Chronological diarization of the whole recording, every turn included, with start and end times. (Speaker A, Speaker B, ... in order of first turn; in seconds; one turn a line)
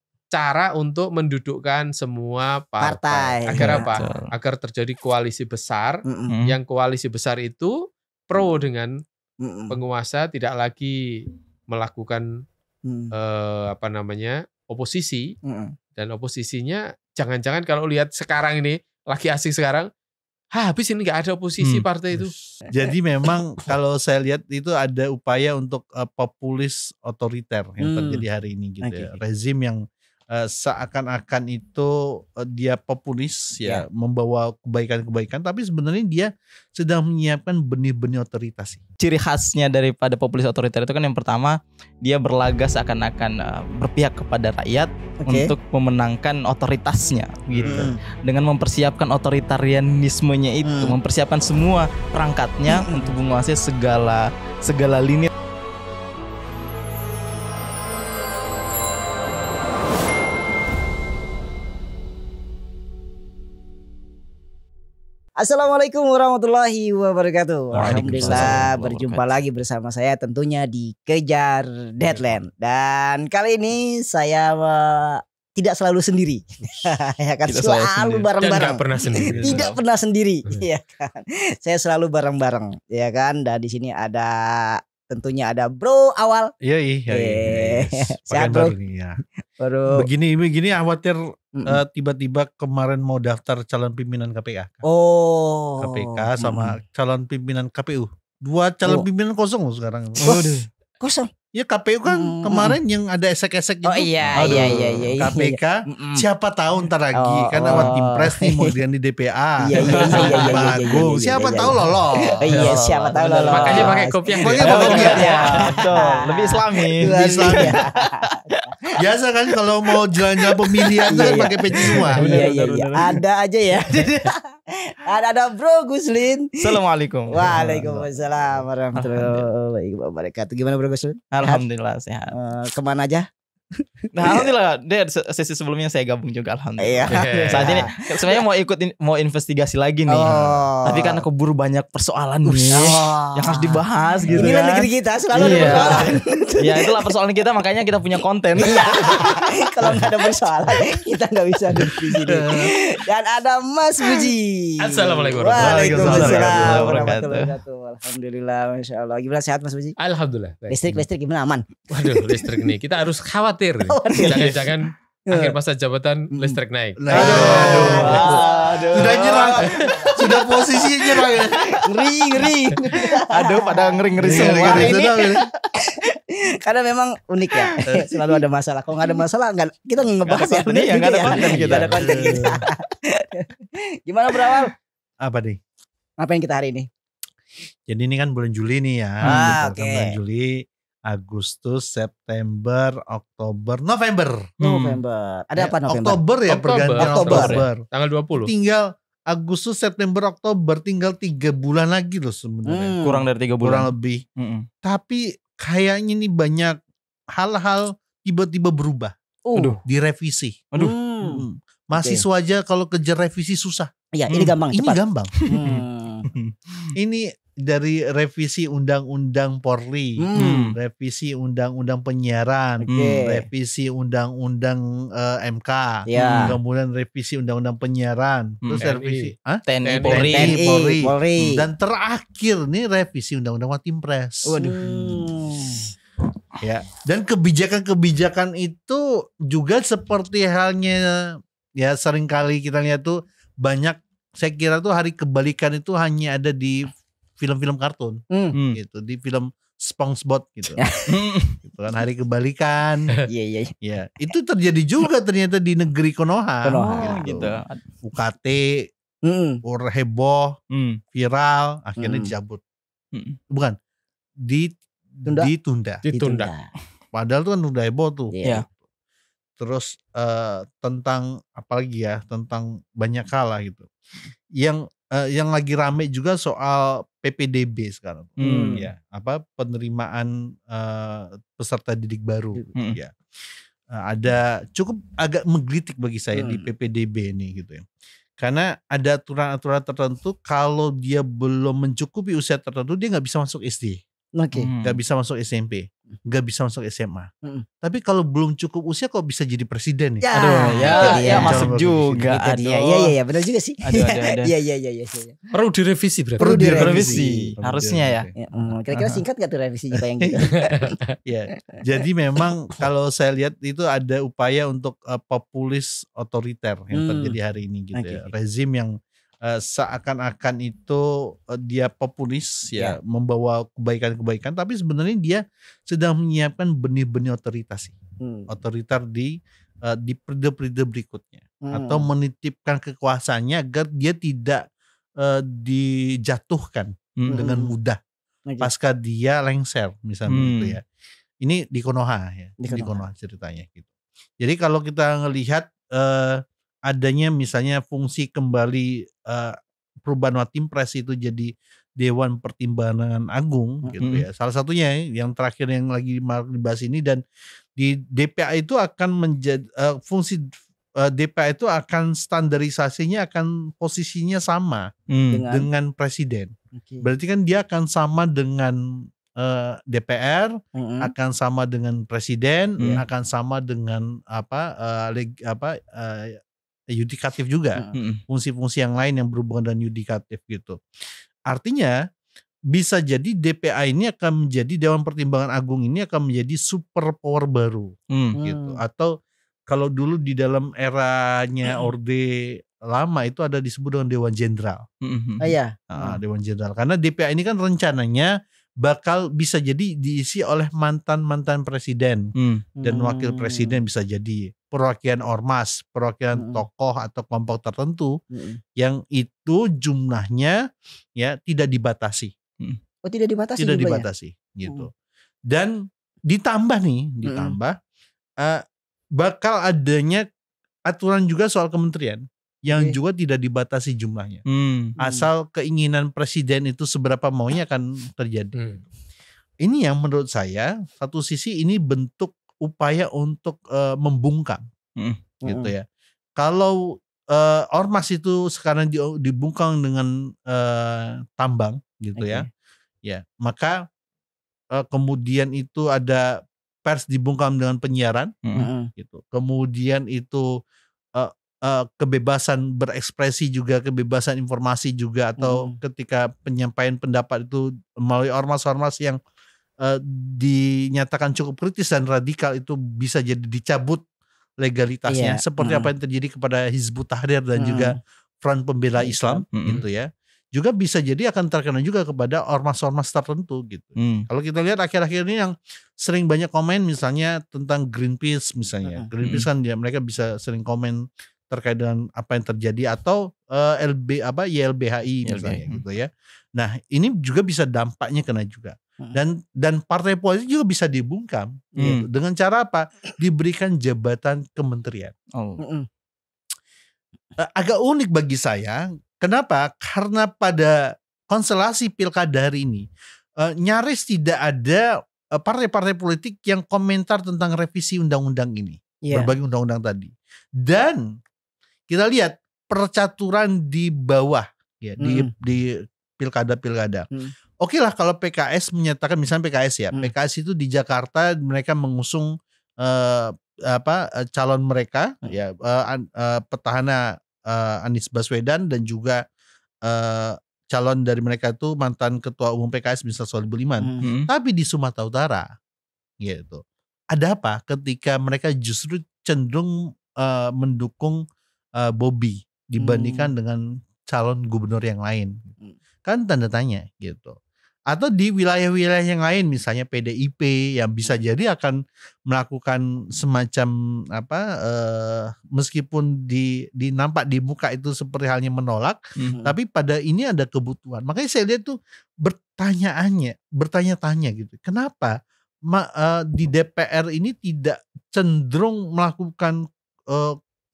Speaker A: 0.3-7.7
Speaker B: 2.8-3.9
Speaker C: 3.6-4.3
Speaker B: 6.1-6.3
Speaker C: 6.3-6.6
Speaker A: 8.3-9.0
Speaker B: 9.4-9.8
Speaker A: 9.7-11.0
Speaker A: 11.7-12.3
Speaker B: 12.8-13.1
Speaker A: 13.1-15.3
Speaker B: 15.4-15.8
Speaker A: 16.0-19.9
Speaker A: 20.5-22.3
Speaker D: 22.2-38.8
Speaker B: 27.8-28.2
Speaker B: 28.8-29.2
Speaker C: 39.0-55.3
Speaker B: 45.2-45.5
Speaker B: 47.7-48.0
Speaker B: 50.6-51.0
Speaker B: 52.7-53.2
Speaker B: 65.4-86.5
Speaker C: 67.8-69.3
Speaker D: 67.8-68.7
Speaker C: 77.5-78.3
Speaker A: 78.4-79.6
Speaker C: 79.3-79.7
Speaker D: 79.4-79.7
Speaker D: 86.6-89.2
Speaker B: 87.1-88.8
Speaker B: 89.6-90.1
Speaker D: 89.9-94.8
Speaker B: 91.5-91.8
Speaker B: 94.8-96.8
Speaker D: 95.8-100.4
Speaker C: 100.2-100.7
Speaker B: 100.3-101.3
Speaker D: 101.5-112.8
Speaker B: 102.1-102.8
Speaker B: 103.8-106.2
Speaker C: 104.3-105.2
Speaker B: 107.2-108.8
Speaker C: 107.7-107.9
Speaker B: 109.6-119.0
Speaker C: 109.7-111.0
Speaker C: 112.5-113.9
Speaker A: 113.5-115.4
Speaker D: 114.4-115.6
Speaker C: 114.6-118.6
Speaker D: 117.0-117.8
Speaker D: 119.0-122.3
Speaker B: 120.9-126.8
Speaker C: 121.1-123.2
Speaker C: 126.6-127.9
Speaker B: 127.3-131.6
Speaker D: 127.4-128.5
Speaker C: 128.9-129.5
Speaker C: 131.3-132.3
Speaker B: 132.3-134.5
Speaker C: 134.1-150.1
Speaker B: 136.8-138.4
Speaker A: 137.1-137.8
Speaker B: 140.1-141.2
Speaker D: 140.2-140.6
Speaker B: 142.5-147.0
Speaker D: 144.2-144.5
Speaker D: 145.4-146.0
Speaker B: 148.6-160.0
Speaker C: 151.8-152.3
Speaker D: 152.3-152.7
Speaker A: 154.8-156.4
Speaker D: 155.5-157.1
Speaker C: 155.9-157.5
Speaker A: 160.0-160.9
Speaker B: 160.7-162.7
Speaker A: 161.9-168.3
Speaker B: 163.9-164.5
Speaker C: 164.2-164.7
Speaker B: 165.3-165.6
Speaker D: 167.0-168.4
Speaker B: 167.1-171.2
Speaker C: 167.2-170.6
Speaker D: 168.9-171.8
Speaker C: 171.2-175.1
Speaker B: 171.8-184.7
Speaker D: 174.2-175.5
Speaker C: 177.5-177.8
Speaker D: 177.9-178.4
Speaker C: 180.3-182.5
Speaker A: 181.5-182.1
Speaker D: 182.0-182.7
Speaker C: 184.3-184.7
Speaker D: 185.2-185.6
Speaker B: 186.2-186.9
Speaker D: 187.9-194.5
Speaker C: 189.2-189.6
Speaker B: 189.3-190.2
Speaker C: 194.6-195.0
Speaker B: 194.6-196.2
Speaker D: 195.6-197.8
Speaker A: 196.5-198.5
Speaker B: 197.0-197.6
Speaker C: 197.3-197.7
Speaker D: 198.4-203.0
Speaker B: 202.7-203.3
Speaker C: 203.0-204.7
Speaker D: 203.6-204.2
Speaker D: 204.8-206.8
Speaker D: 207.3-209.2
Speaker B: 209.5-209.8
Speaker C: 209.6-209.8
Speaker D: 209.8-210.7
Speaker B: 210.8-212.2
Speaker D: 211.2-213.9
Speaker B: 214.1-216.3
Speaker C: 214.3-214.6
Speaker D: 214.7-215.3
Speaker C: 215.4-216.9
Speaker D: 217.0-235.2
Speaker B: 220.2-220.7
Speaker C: 220.4-220.8
Speaker B: 222.8-223.5
Speaker C: 222.9-223.2
Speaker B: 226.1-226.6
Speaker C: 226.2-226.6
Speaker A: 228.8-229.3
Speaker C: 229.7-230.6
Speaker A: 229.8-230.3
Speaker B: 230.2-231.7
Speaker B: 234.5-235.9
Speaker D: 236.6-248.2
Speaker C: 248.5-248.8
Speaker D: 248.7-250.9
Speaker B: 250.8-251.0
Speaker C: 251.1-251.6
Speaker D: 251.6-253.2
Speaker B: 253.3-253.7
Speaker D: 253.8-258.9
Speaker B: 256.6-257.4
Speaker C: 256.8-257.8
Speaker B: 259.2-259.6
Speaker D: 259.6-260.6
Speaker C: 260.7-261.0
Speaker D: 261.1-262.6
Speaker B: 262.0-262.3
Speaker D: 263.5-263.8
Speaker D: 264.4-266.0
Speaker A: 266.0-266.5
Speaker B: 266.1-266.7
Speaker D: 267.1-268.4
Speaker B: 268.3-268.6
Speaker D: 269.6-273.9
Speaker D: 274.6-283.1
Speaker C: 278.4-278.9
Speaker D: 283.9-287.9
Speaker B: 286.3-286.6
Speaker D: 288.4-294.0
Speaker B: 294.4-294.7
Speaker C: 294.6-295.0
Speaker D: 294.8-297.3
Speaker D: 297.8-300.3
Speaker B: 300.2-301.7
Speaker C: 300.4-303.1
Speaker D: 300.8-302.3
Speaker B: 302.3-305.4
Speaker C: 303.8-304.5
Speaker A: 305.5-306.5
Speaker B: 306.4-307.6
Speaker D: 306.4-308.3
Speaker C: 306.7-308.3
Speaker B: 308.4-310.9
Speaker C: 308.9-309.2
Speaker D: 310.2-310.5
Speaker A: 310.6-311.0
Speaker D: 311.2-334.7
Speaker B: 316.9-317.4
Speaker B: 317.9-318.3
Speaker B: 328.2-328.5
Speaker B: 331.6-332.1
Speaker D: 335.2-338.0
Speaker B: 337.3-337.7
Speaker D: 338.6-340.9
Speaker C: 340.3-340.8
Speaker D: 341.4-343.9
Speaker B: 342.6-343.0
Speaker D: 344.4-357.2
Speaker D: 357.8-364.9
Speaker C: 365.1-365.4
Speaker B: 365.3-365.7
Speaker D: 365.5-380.8
Speaker B: 366.7-367.1
Speaker B: 370.8-371.1
Speaker C: 377.9-378.2
Speaker D: 381.5-382.0
Speaker D: 382.7-389.1
Speaker C: 388.1-388.4
Speaker B: 388.4-388.8
Speaker D: 389.7-394.9
Speaker C: 395.0-395.6
Speaker B: 395.4-396.2
Speaker D: 395.9-402.3
Speaker C: 402.4-402.6
Speaker B: 402.8-403.8
Speaker D: 402.8-408.2
Speaker B: 406.4-406.6
Speaker B: 408.3-408.6
Speaker D: 408.8-410.6
Speaker D: 411.2-412.3
Speaker B: 413.1-414.1
Speaker D: 413.6-414.9
Speaker D: 415.5-417.8
Speaker B: 417.2-417.6
Speaker D: 419.2-420.3
Speaker D: 420.9-424.4
Speaker B: 422.7-423.0
Speaker C: 424.5-424.9
Speaker B: 425.0-425.3
Speaker D: 425.0-428.6
Speaker A: 428.6-428.8
Speaker D: 429.6-434.6
Speaker B: 435.4-435.7
Speaker D: 435.4-435.9
Speaker D: 436.4-442.5
Speaker B: 442.2-442.5
Speaker D: 443.0-443.8
Speaker D: 444.7-448.3
Speaker C: 448.4-448.7
Speaker B: 448.6-448.9
Speaker D: 448.9-450.6
Speaker D: 451.2-459.2
Speaker B: 455.4-455.8
Speaker D: 459.8-464.0
Speaker D: 464.6-495.1
Speaker B: 465.1-465.9
Speaker B: 467.6-468.0
Speaker B: 469.0-469.4
Speaker C: 469.5-469.8
Speaker C: 474.0-474.3
Speaker C: 485.2-485.8
Speaker C: 491.8-492.1
Speaker C: 495.4-495.6
Speaker B: 495.6-495.9
Speaker D: 497.4-502.9
Speaker D: 503.4-511.1
Speaker B: 509.0-509.3
Speaker D: 511.9-517.1
Speaker B: 515.0-515.3
Speaker D: 517.6-529.2
Speaker D: 529.8-535.5
Speaker B: 533.8-534.1
Speaker C: 534.0-534.3
Speaker D: 536.2-541.2
Speaker D: 541.8-545.5
Speaker B: 542.8-543.3
Speaker D: 546.0-547.4
Speaker D: 547.9-570.4